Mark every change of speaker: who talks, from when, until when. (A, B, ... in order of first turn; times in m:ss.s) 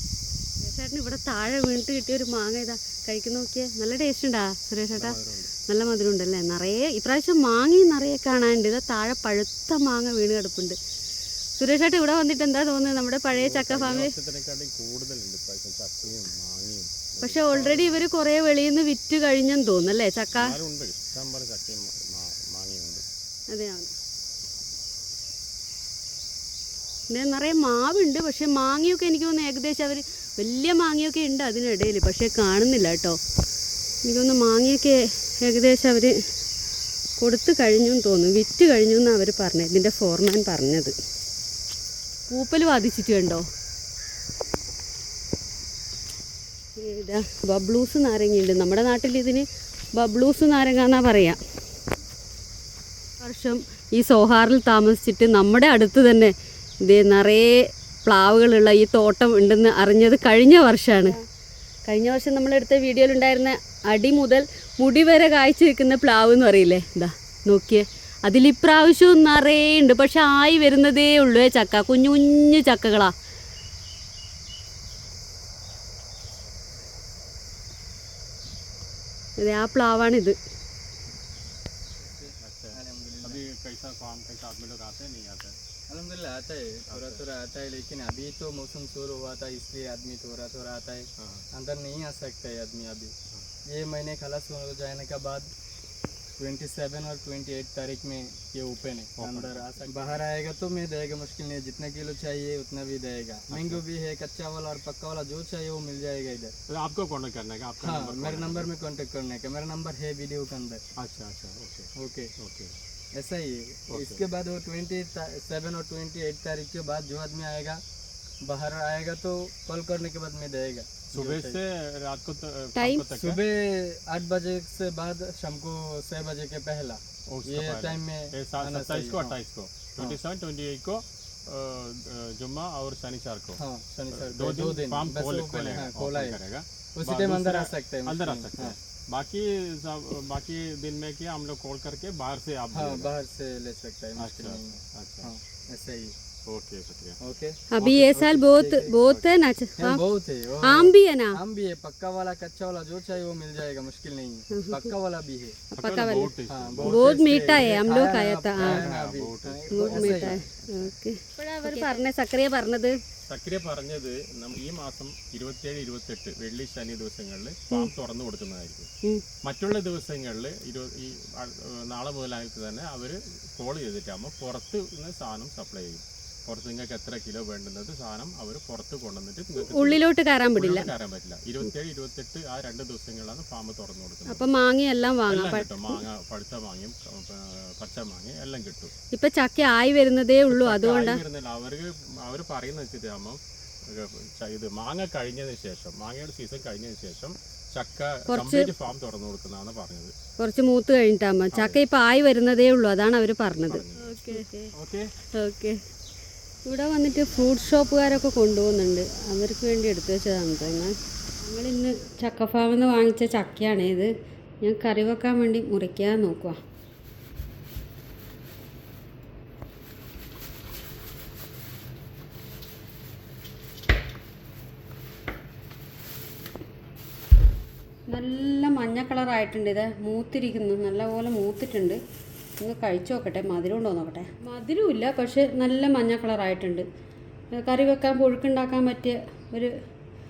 0:00.6-0:05.2 A
0:04.9-0:05.5 B
0:05.7-0:10.8 A
0:11.6-0:14.1 A
0:13.3-0:18.1 B
0:17.2-0:20.6 A
0:20.3-0:23.0 B
0:23.5-0:23.9 A
0:27.1-0:33.2 A
0:34.0-0:36.1 A
0:37.2-0:40.9 A
0:42.3-0:43.4 A
0:46.8-0:51.4 A
0:53.2-0:56.3 A
0:56.8-1:01.2 A
1:01.9-1:13.1 A
1:19.4-1:20.4 A
1:22.1-1:23.4 C
1:22.4-1:25.6 B
1:25.9-1:33.1 C
1:26.9-1:27.2 B
1:31.2-1:31.5 B
1:33.7-1:35.5 C
1:36.4-1:46.6 C
1:39.2-1:40.2 B
1:43.5-1:43.8 B
1:46.7-1:48.7 B
1:47.8-1:50.8 C
1:51.0-1:52.8 B
1:52.0-1:52.3 C
1:53.1-1:57.8 C
1:53.9-1:54.2 B
1:58.4-2:01.6 C
2:01.1-2:03.4 B
2:02.7-2:03.1 A
2:03.1-2:09.4 C
2:07.3-2:13.6 B
2:13.6-2:16.4 C
2:14.1-2:23.1 B
2:16.9-2:18.8 C
2:22.7-2:26.1 C
2:24.2-2:25.3 B
2:26.4-2:27.2 B
2:27.2-2:28.9 C
2:27.7-2:30.0 A
2:27.8-2:29.3 B
2:29.8-2:35.6 C
2:30.6-2:31.4 A
2:34.5-2:34.9 A
2:35.7-2:38.9 A
2:35.7-2:37.8 B
2:36.5-2:40.4 C
2:38.5-2:40.9 B
2:39.7-2:42.9 A
2:43.3-2:48.9 B
2:49.4-3:00.0 B
2:59.6-3:00.9 A
3:00.6-3:04.5 B
3:04.3-3:06.0 A
3:05.3-3:08.9 B
3:09.1-3:11.2 A
3:10.5-3:20.1 B
3:18.3-3:18.7 A
3:20.4-3:24.7 A
3:21.5-3:21.8 B
3:23.7-3:24.2 B
3:24.8-3:25.1 C
3:25.3-3:25.8 A
3:26.6-3:36.6 A
3:48.1-3:52.0 A
3:52.6-3:56.8 A
3:57.5-3:59.7 A